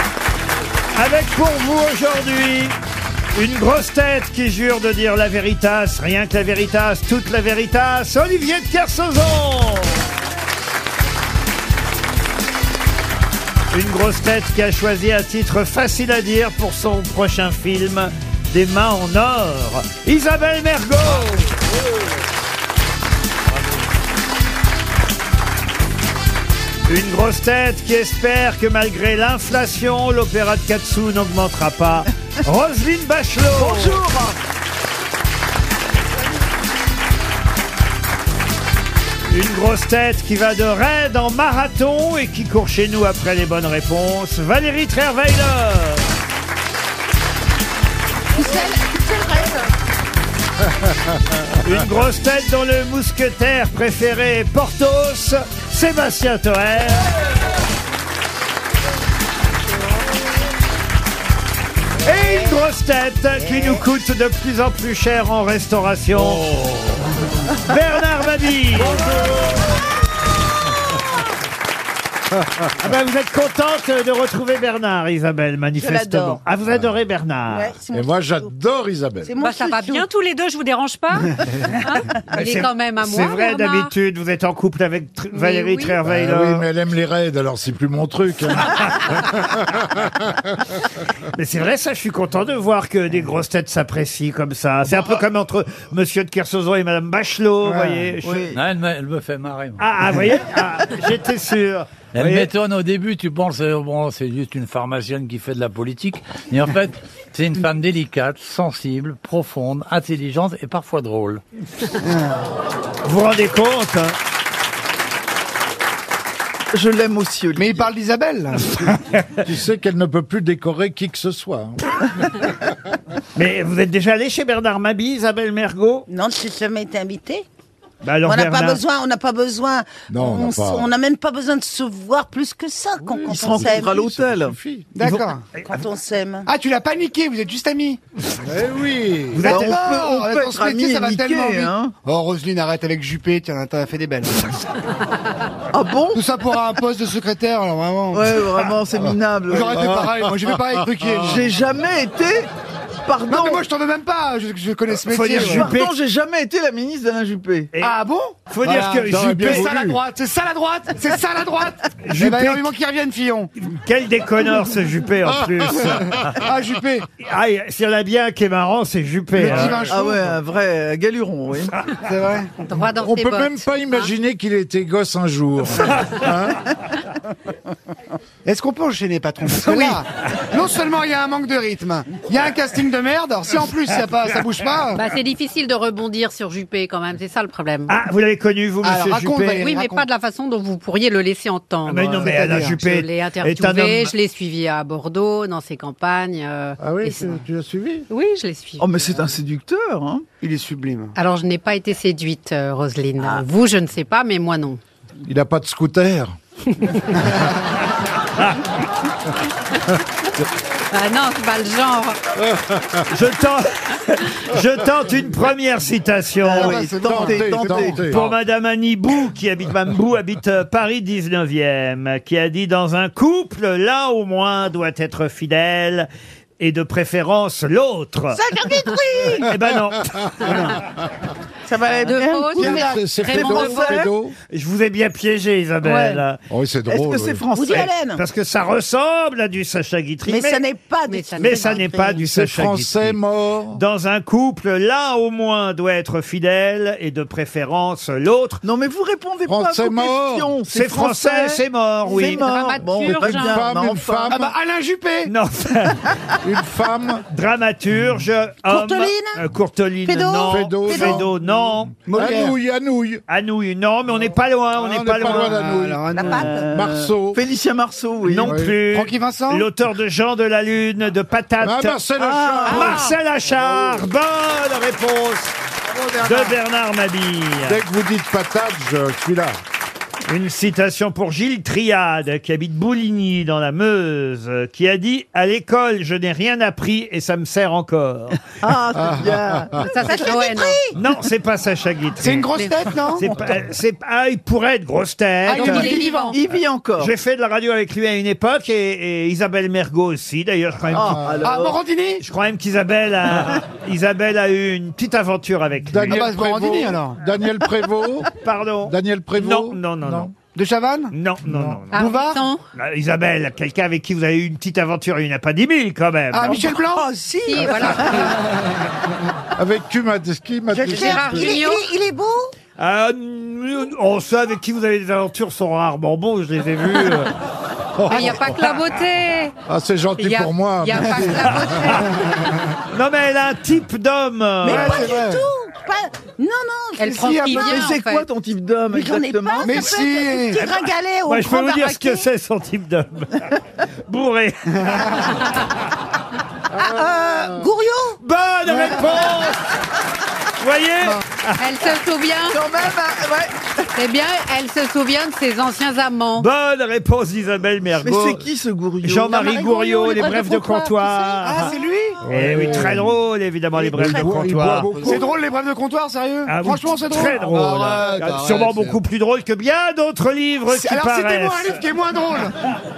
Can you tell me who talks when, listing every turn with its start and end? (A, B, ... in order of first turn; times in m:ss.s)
0:00.9-0:02.8 A
0:03.3-0:10.0 A
0:13.7-0:21.5 A
0:26.9-0:34.0 A
0:33.5-0:34.4 B
0:39.3-0:46.1 A
0:48.3-0:49.7 C
0:51.6-0:57.1 A
1:02.0-1:06.5 A
1:03.4-1:03.8 C
1:06.2-1:06.8 D
1:07.6-1:09.1 A
1:09.2-1:09.5 C
1:12.8-1:17.8 A
1:15.8-1:16.4 C
1:16.7-1:16.9 E
1:17.5-1:18.5 C
1:17.9-1:19.3 E
1:19.2-1:20.1 C
1:19.4-1:23.9 F
1:22.3-1:26.7 A
1:25.3-1:26.0 F
1:26.0-1:30.4 E
1:31.4-1:38.5 A
1:37.7-1:38.1 G
1:38.2-1:38.6 B
1:38.5-1:39.8 D
1:39.8-1:42.5 A
1:42.1-1:51.4 D
1:52.1-1:52.3 G
1:53.0-1:54.2 A
1:56.7-1:57.8 B
1:57.6-1:58.9 G
1:59.4-2:01.9 E
2:03.4-2:06.1 A
2:06.1-2:07.4 C
2:08.0-2:08.8 A
2:08.2-2:14.1 C
2:10.1-2:10.9 E
2:13.0-2:14.9 E
2:13.3-2:14.6 B
2:15.0-2:15.4 G
2:15.0-2:15.7 A
2:15.6-2:16.5 C
2:16.5-2:18.0 G
2:18.4-2:19.5 E
2:19.4-2:19.8 A
2:19.4-2:21.9 B
2:19.5-2:24.5 G
2:25.7-2:26.2 B
2:26.1-2:28.4 G
2:28.1-2:29.9 B
2:29.5-2:31.4 G
2:29.8-2:30.2 E
2:31.1-2:31.4 E
2:31.2-2:32.5 B
2:33.0-2:33.6 B
2:33.3-2:35.7 G
2:35.1-2:36.0 A
2:35.3-2:37.7 B
2:37.8-2:43.5 G
2:38.5-2:39.7 A
2:39.0-2:40.0 E
2:42.1-2:42.6 A
2:43.6-2:45.8 A
2:45.2-2:46.3 E
2:45.8-2:47.1 G
2:47.2-2:49.9 A
2:49.4-2:50.2 G
2:49.5-2:50.0 E
2:49.9-2:51.9 B
2:52.0-2:52.5 G
2:52.7-2:54.1 F
2:53.0-2:56.6 E
2:55.9-2:56.3 A
2:58.4-3:05.0 G
2:59.6-3:00.0 A
3:05.0-3:07.9 F
3:07.9-3:09.7 A
3:08.8-3:10.1 G
3:09.6-3:17.4 F
3:11.9-3:14.1 A
3:12.1-3:12.8 G
3:16.8-3:18.1 E
3:18.1-3:19.1 F
3:18.8-3:20.2 B
3:20.4-3:21.2 G
3:21.2-3:24.8 F
3:25.2-3:26.4 E
3:30.9-3:32.2 F
3:33.1-3:36.9 A
3:36.4-3:38.0 B
3:36.6-3:38.1 G
3:37.0-3:38.3 E
3:38.1-3:46.1 A
3:46.6-3:48.4 A
3:48.3-3:49.5 C
3:49.4-3:50.6 A
3:50.2-3:50.5 E
3:51.7-3:53.0 C
3:52.0-3:54.1 B
3:52.1-3:54.0 F
3:52.6-3:54.4 E
3:54.5-3:56.4 A
3:56.5-3:57.5 E
3:56.9-3:57.9 B
3:57.5-3:58.2 C
3:57.7-4:00.6 A
4:00.3-4:02.3 C
4:01.1-4:01.9 F
4:01.4-4:03.2 A
4:02.2-4:03.8 E
4:03.7-4:08.6 A
4:08.6-4:14.4 B
4:09.5-4:10.5 E
4:10.7-4:12.5 A
4:12.2-4:13.9 F
4:13.2-4:14.5 E
4:14.3-4:15.3 G
4:15.3-4:16.1 A
4:16.4-4:17.2 E
4:17.3-4:22.0 A
4:18.6-4:19.4 C
4:20.1-4:21.3 C
4:20.5-4:21.3 E
4:22.1-4:23.2 E
4:22.1-4:22.6 G
4:23.3-4:25.6 A
4:24.7-4:27.4 E
4:25.2-4:26.5 G
4:26.1-4:26.6 C
4:26.4-4:28.6 B
4:28.2-4:32.0 A
4:28.4-4:28.8 E
4:28.8-4:29.7 G
4:31.6-4:34.1 E
4:32.2-4:33.0 B
4:32.7-4:35.6 A
4:32.7-4:33.2 C
4:35.9-4:36.6 G
4:36.2-4:37.8 A
4:37.6-4:39.6 E
4:40.3-4:48.4 A
4:48.6-4:50.2 B
4:49.2-4:49.4 E
4:49.8-4:50.8 F
4:50.1-4:51.0 C
4:51.0-4:55.9 A
4:52.2-4:53.2 G
4:53.2-4:53.6 B
4:55.5-4:56.4 G
4:55.6-4:56.4 F
4:55.8-4:57.1 B
4:57.0-5:01.2 A
5:00.9-5:01.8 B
5:01.1-5:01.4 E
5:01.4-5:02.2 G
5:02.2-5:06.3 A
5:05.8-5:08.3 E
5:06.1-5:07.2 G
5:08.4-5:10.3 A
5:08.8-5:10.3 E
5:10.5-5:11.2 G
5:11.1-5:11.9 A
5:11.5-5:11.8 E
5:11.9-5:12.6 F
5:11.9-5:12.4 G
5:12.7-5:16.6 A
5:16.3-5:17.1 G
5:16.5-5:18.4 C
5:17.5-5:18.4 F
5:18.1-5:18.5 G
5:19.6-5:21.6 E
5:20.7-5:22.5 C
5:20.9-5:21.9 F
5:22.8-5:27.4 A
5:28.0-5:28.5 E
5:28.1-5:29.6 F
5:29.7-5:32.1 E
5:30.2-5:32.4 F
5:32.9-5:35.2 A
5:34.6-5:37.9 C
5:34.7-5:35.4 G
5:37.0-5:38.3 F
5:37.0-5:37.8 G
5:37.7-5:39.8 B
5:38.9-5:42.2 C
5:39.6-5:40.7 G
5:41.3-5:45.8 A
5:44.8-5:45.3 G
5:46.8-5:48.2 C
5:48.2-5:49.6 A
5:50.6-5:51.6 A
5:51.6-5:52.6 F
5:52.5-5:53.9 B
5:54.0-5:56.5 F
5:56.4-5:58.5 A
5:58.0-5:59.6 B
5:59.0-6:05.2 A
5:59.4-6:01.8 C
6:01.4-6:02.2 G
6:02.2-6:03.2 E
6:03.8-6:05.3 E
6:04.1-6:04.8 C
6:05.0-6:08.9 G
6:06.5-6:11.9 A
6:07.9-6:08.9 E
6:10.7-6:12.6 G